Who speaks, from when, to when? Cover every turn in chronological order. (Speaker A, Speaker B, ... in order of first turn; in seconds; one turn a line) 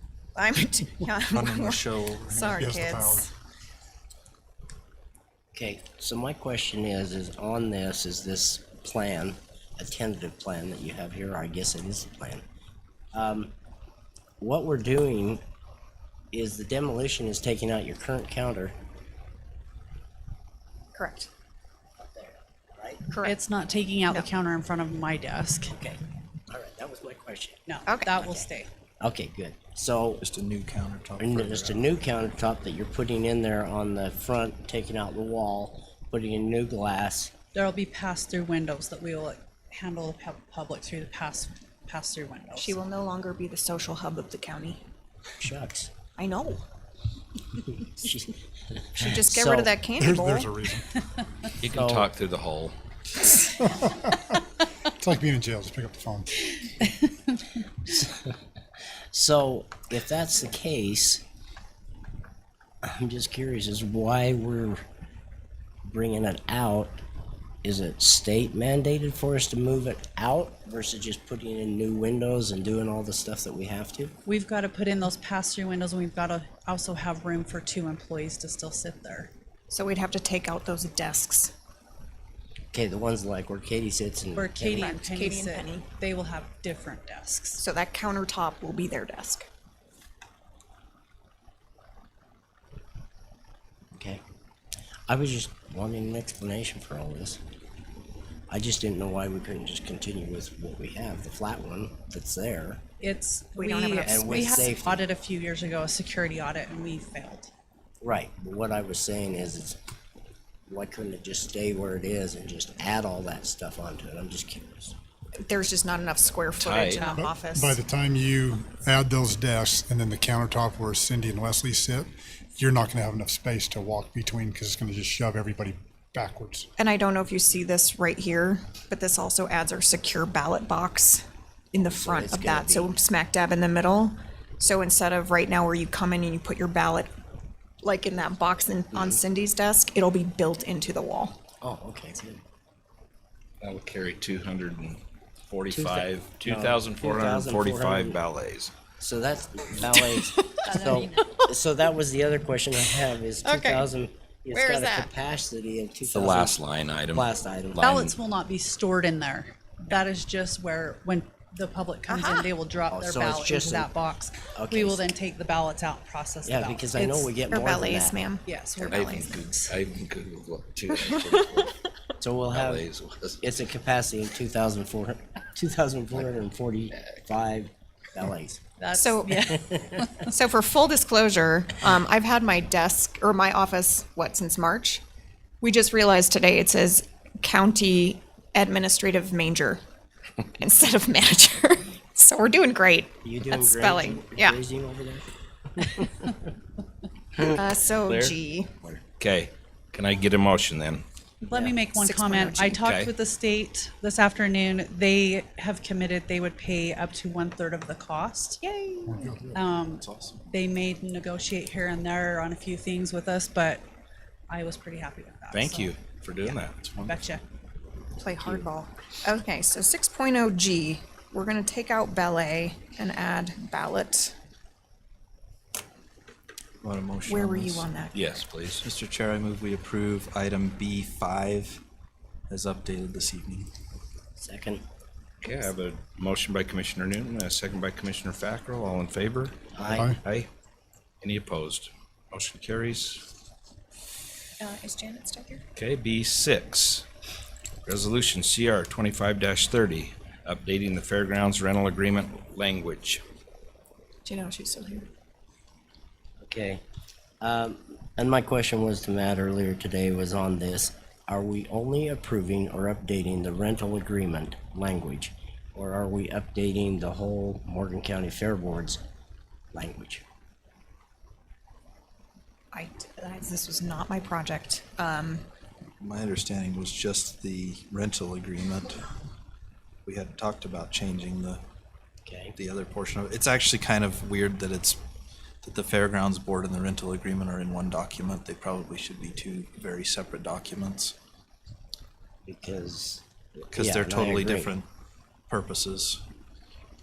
Speaker A: 0.3-3.3
Speaker B: 1.3-2.4
Speaker C: 2.3-3.3
Speaker D: 5.5-12.4
Speaker D: 13.1-13.5
Speaker D: 14.4-15.4
Speaker D: 16.3-18.7
Speaker A: 20.9-21.3
Speaker D: 22.0-23.0
Speaker A: 23.1-23.4
Speaker E: 23.2-25.7
Speaker D: 25.7-27.6
Speaker E: 27.7-28.7
Speaker D: 28.1-28.5
Speaker D: 29.0-30.2
Speaker B: 30.2-31.9
Speaker D: 31.2-37.3
Speaker E: 37.5-42.8
Speaker A: 42.5-44.8
Speaker D: 45.4-45.9
Speaker A: 46.1-46.6
Speaker D: 47.7-49.8
Speaker A: 49.0-50.5
Speaker C: 50.0-51.0
Speaker F: 51.6-52.7
Speaker D: 51.7-52.1
Speaker C: 53.5-54.3
Speaker C: 55.0-56.5
Speaker D: 57.8-58.4
Speaker D: 59.1-61.2
Speaker D: 62.8-64.8
Speaker D: 65.8-67.0
Speaker D: 67.6-74.1
Speaker E: 74.2-79.3
Speaker A: 79.7-81.5
Speaker D: 82.7-84.9
Speaker E: 84.3-87.6
Speaker A: 84.7-85.8
Speaker A: 87.6-89.5
Speaker D: 94.0-94.2
Speaker D: 95.1-97.4
Speaker D: 98.5-102.8
Speaker E: 103.0-107.5
Speaker A: 103.5-104.7
Speaker D: 104.0-105.0
Speaker D: 108.0-109.8
Speaker D: 110.7-114.9
Speaker A: 115.4-117.8
Speaker F: 116.6-117.0
Speaker C: 117.0-126.7
Speaker A: 126.8-137.1
Speaker D: 131.8-132.9
Speaker A: 137.8-141.4
Speaker D: 138.9-139.2
Speaker D: 141.6-142.4
Speaker F: 143.6-148.7
Speaker D: 145.7-148.2
Speaker D: 149.0-156.6
Speaker E: 150.6-151.2
Speaker A: 153.4-153.8
Speaker A: 154.5-155.1
Speaker F: 156.1-158.1
Speaker D: 157.1-157.8
Speaker E: 157.8-167.3
Speaker A: 162.1-162.5
Speaker D: 162.9-163.9
Speaker D: 164.5-165.1
Speaker D: 166.4-168.2
Speaker A: 167.5-169.3
Speaker E: 168.4-169.8
Speaker F: 168.9-171.8
Speaker D: 172.2-172.9
Speaker F: 172.4-173.4
Speaker D: 173.4-178.6
Speaker E: 178.8-180.3
Speaker A: 178.9-179.5
Speaker A: 180.2-185.0
Speaker A: 185.6-189.8
Speaker A: 190.5-194.6
Speaker D: 193.2-196.5
Speaker A: 197.4-198.7
Speaker F: 198.1-201.0
Speaker E: 201.4-213.8
Speaker D: 201.5-201.8
Speaker A: 201.9-202.8
Speaker F: 202.8-203.1
Speaker C: 209.0-209.5
Speaker B: 209.5-210.4
Speaker E: 214.5-215.9
Speaker F: 215.5-216.9
Speaker B: 216.8-217.1
Speaker E: 217.0-217.4
Speaker A: 218.2-224.3
Speaker B: 226.8-227.9
Speaker A: 227.2-228.4
Speaker F: 228.1-228.8
Speaker B: 228.8-231.8
Speaker B: 232.5-233.7
Speaker D: 234.4-234.8
Speaker F: 235.4-239.6
Speaker D: 239.7-240.1
Speaker F: 241.2-243.2
Speaker A: 244.6-245.6
Speaker F: 245.8-247.0
Speaker F: 247.8-253.2
Speaker A: 254.2-255.1
Speaker D: 256.4-256.8
Speaker D: 257.4-269.0
Speaker D: 269.7-270.2
Speaker A: 272.7-275.4
Speaker B: 276.0-279.1
Speaker B: 280.1-281.6
Speaker D: 282.2-282.5
Speaker B: 282.6-285.0
Speaker B: 285.6-291.1
Speaker D: 292.4-294.7
Speaker B: 293.7-294.8
Speaker B: 295.5-296.2